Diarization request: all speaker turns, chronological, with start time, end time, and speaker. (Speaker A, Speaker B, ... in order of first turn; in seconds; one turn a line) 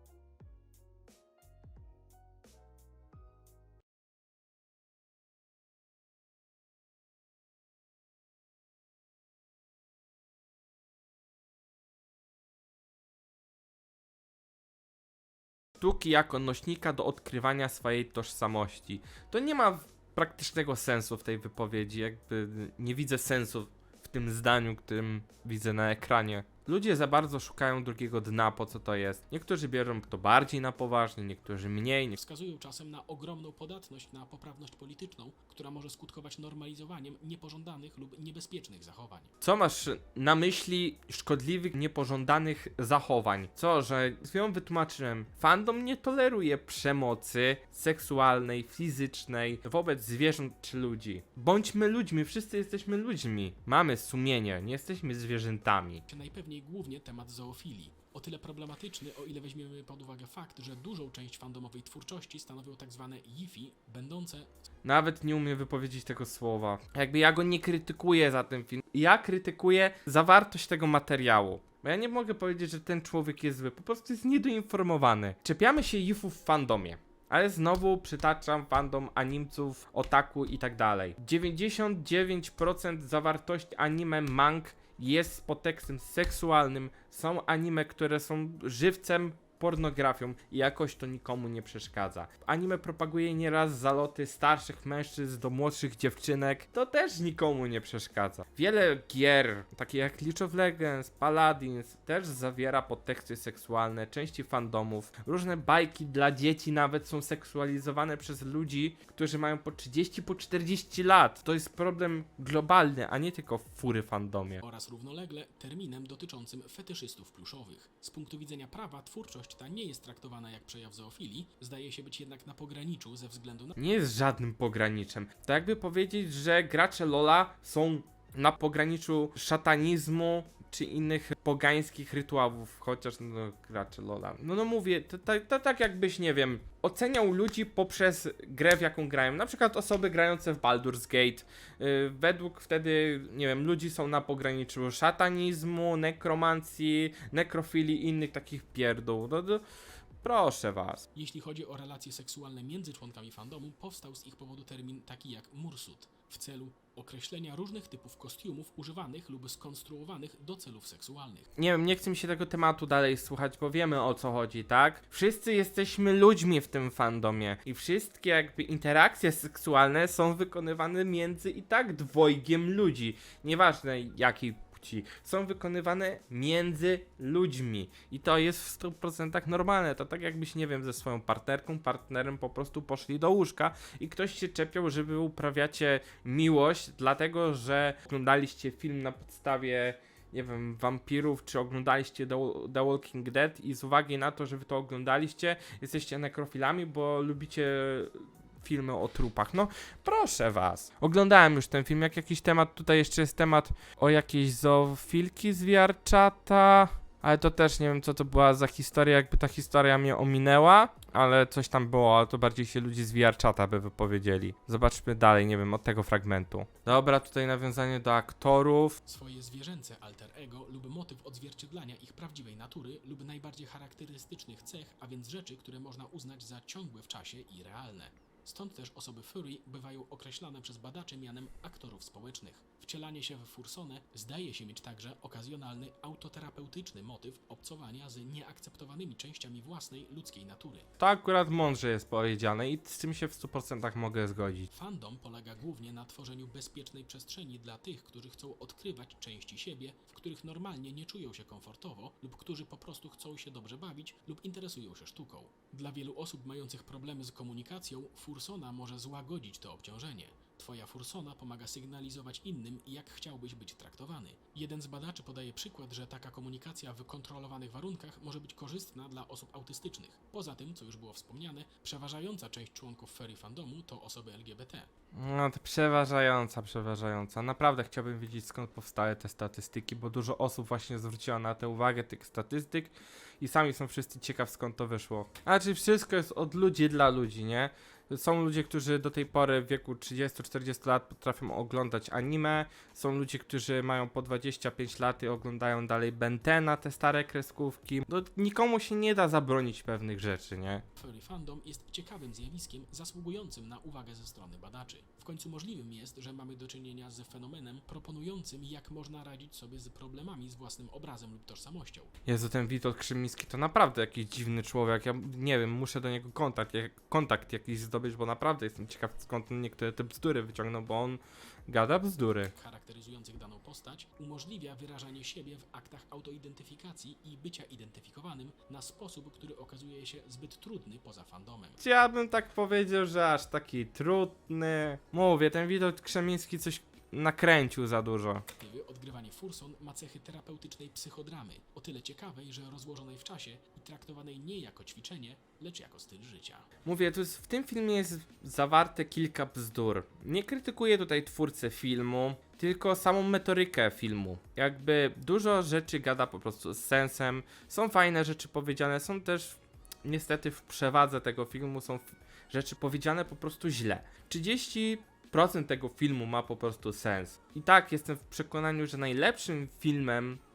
Speaker A: 15.8-32.1
Speaker B: 32.1-39.3
Speaker A: 39.4-56.0
Speaker B: 56.1-64.5
Speaker A: 64.8-114.6
Speaker B: 114.6-123.8
Speaker A: 123.8-149.6
Speaker A: 150.2-151.1
Speaker B: 151.1-161.5
Speaker A: 161.6-219.0
Speaker B: 219.1-240.9
Speaker A: 241.0-244.7
Speaker B: 244.7-274.9
Speaker A: 275.1-300.8
Speaker B: 300.9-312.1
Speaker A: 312.2-322.5
Speaker B: 322.5-331.8
Speaker A: 331.8-338.4
Speaker B: 338.6-346.7
Speaker A: 346.8-370.4